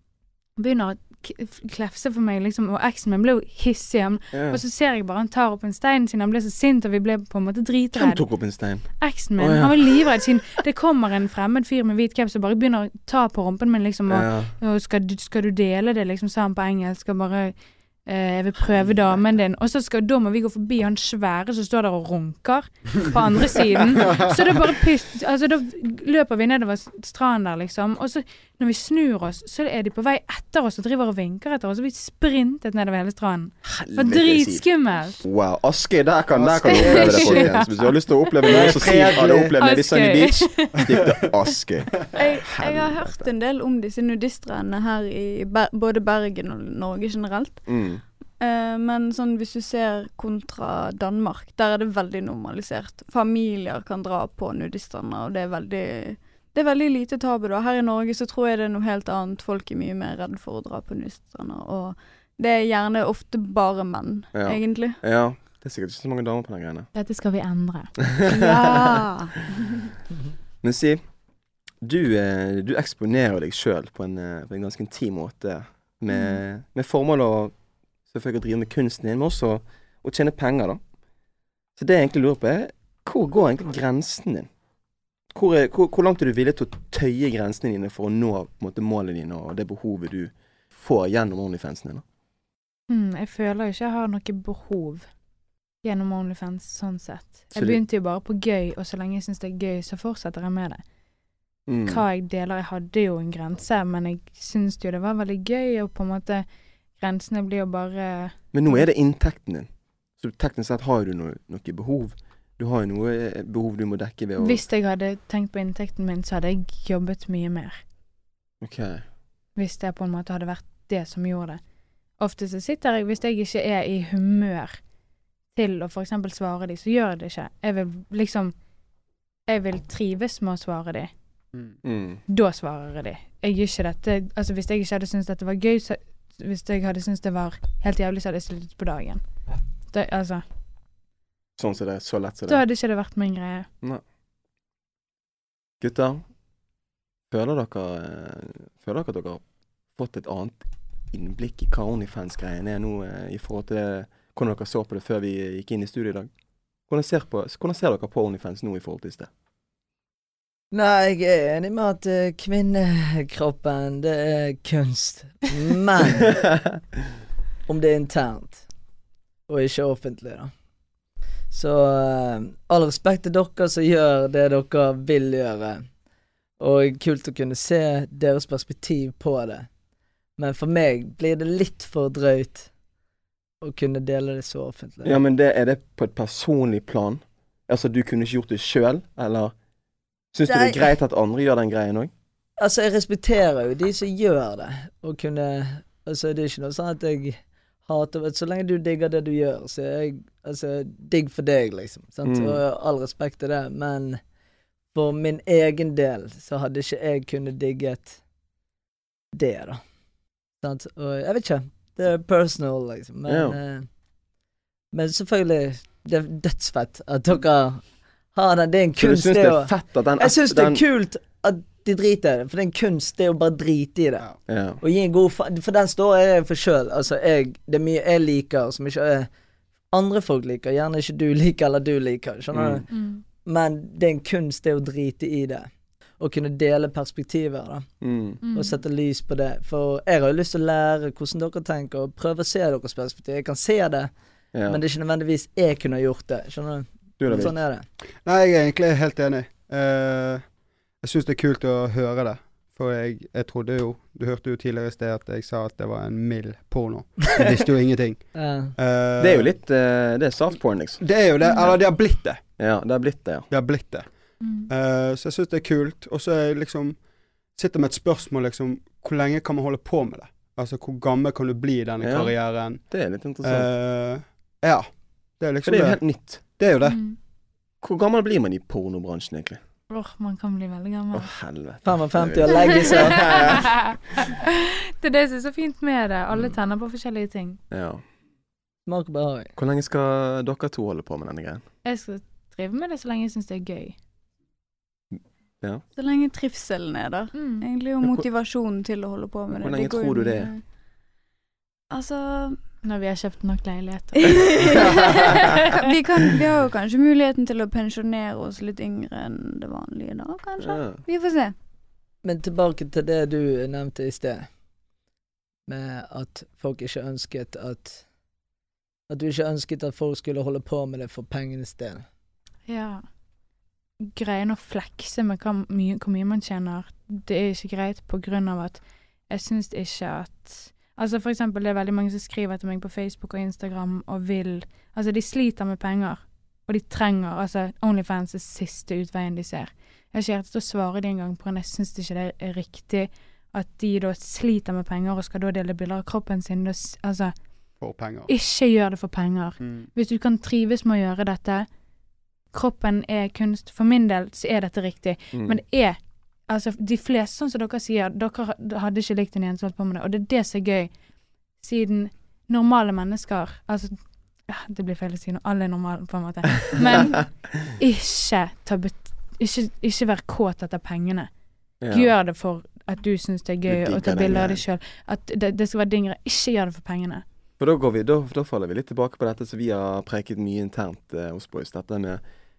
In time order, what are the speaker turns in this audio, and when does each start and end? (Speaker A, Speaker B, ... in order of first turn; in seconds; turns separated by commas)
Speaker A: 0.6-8.2, Speaker B: 4.3-4.6, Speaker B: 8.0-8.9, Speaker A: 9.0-17.6, Speaker B: 9.4-10.1, Speaker B: 14.1-14.6, Speaker A: 18.1-35.2, Speaker B: 18.7-19.2, Speaker B: 33.6-43.3, Speaker C: 36.3-37.6, Speaker A: 36.7-38.7, Speaker D: 38.5-39.5, Speaker A: 39.6-40.8, Speaker E: 42.1-47.7, Speaker B: 47.7-48.0, Speaker E: 48.4-65.0, Speaker B: 64.3-66.9, Speaker A: 67.0-67.9, Speaker E: 68.2-69.9, Speaker B: 68.3-69.0, Speaker B: 70.6-71.0, Speaker B: 71.8-77.5, Speaker B: 78.1-80.8, Speaker B: 81.8-84.5, Speaker B: 85.3-92.0, Speaker A: 92.9-95.0, Speaker A: 95.8-100.8, Speaker B: 97.5-97.8, Speaker B: 101.7-102.0, Speaker A: 101.9-106.5, Speaker A: 107.0-108.8, Speaker B: 108.5-109.7, Speaker B: 110.2-114.6, Speaker A: 114.4-117.8, Speaker B: 118.6-119.0, Speaker A: 119.6-121.6, Speaker A: 122.2-124.8, Speaker A: 125.5-128.5, Speaker A: 129.5-131.1, Speaker B: 131.8-132.2, Speaker A: 132.3-139.2, Speaker A: 139.9-140.4, Speaker B: 141.6-142.6, Speaker A: 142.5-143.7, Speaker B: 145.8-146.2, Speaker B: 147.3-149.4, Speaker B: 149.9-156.3, Speaker B: 156.9-159.3, Speaker D: 160.7-166.3, Speaker D: 167.7-168.7, Speaker D: 169.5-170.5, Speaker D: 171.5-175.8, Speaker D: 176.6-179.7, Speaker D: 180.4-182.7, Speaker D: 183.6-185.2, Speaker B: 185.0-189.5, Speaker B: 190.3-192.1, Speaker D: 190.5-190.9, Speaker D: 192.6-204.2, Speaker B: 202.2-202.6, Speaker D: 204.9-208.2, Speaker D: 209.3-209.8, Speaker D: 210.6-213.9, Speaker B: 213.3-213.6, Speaker D: 214.9-217.8, Speaker D: 218.3-224.3, Speaker B: 219.0-220.8, Speaker B: 224.5-224.8, Speaker D: 224.8-229.3, Speaker D: 229.9-232.9, Speaker B: 232.5-232.8, Speaker A: 232.9-233.2, Speaker D: 233.4-235.7, Speaker D: 236.2-237.9, Speaker B: 238.0-238.4, Speaker A: 238.4-238.8, Speaker D: 238.5-244.1, Speaker B: 244.5-244.8, Speaker D: 244.7-247.8, Speaker B: 247.2-247.5, Speaker C: 248.2-250.5, Speaker C: 251.0-259.5, Speaker D: 258.4-258.7, Speaker B: 259.2-261.0, Speaker C: 261.0-262.4, Speaker A: 261.4-261.7, Speaker B: 262.6-263.5, Speaker C: 263.5-264.1, Speaker A: 264.4-264.7, Speaker C: 264.7-267.0, Speaker C: 267.6-272.9, Speaker B: 272.0-273.7, Speaker C: 273.4-274.9, Speaker C: 275.4-277.0, Speaker B: 275.6-276.4, Speaker A: 276.9-277.2, Speaker B: 277.8-279.6, Speaker A: 279.9-281.3, Speaker B: 281.1-283.9, Speaker D: 281.8-283.4, Speaker A: 282.6-287.6, Speaker B: 287.7-288.0, Speaker D: 288.9-289.5, Speaker B: 289.6-291.6, Speaker A: 291.9-294.0, Speaker E: 295.9-300.6, Speaker A: 297.3-297.7, Speaker B: 299.5-300.5, Speaker E: 301.9-302.6, Speaker A: 302.8-305.6, Speaker E: 304.2-311.5, Speaker B: 310.6-311.0, Speaker D: 312.2-314.5, Speaker D: 315.7-318.0, Speaker D: 319.1-322.1, Speaker A: 322.7-323.0, Speaker A: 324.0-347.3, Speaker C: 347.8-348.3, Speaker A: 348.3-351.7, Speaker C: 349.6-349.9, Speaker A: 352.5-360.9, Speaker B: 355.3-355.6, Speaker A: 361.6-364.0, Speaker A: 364.5-371.3, Speaker B: 371.8-372.1, Speaker A: 371.9-377.2, Speaker B: 373.7-374.6, Speaker B: 377.6-382.2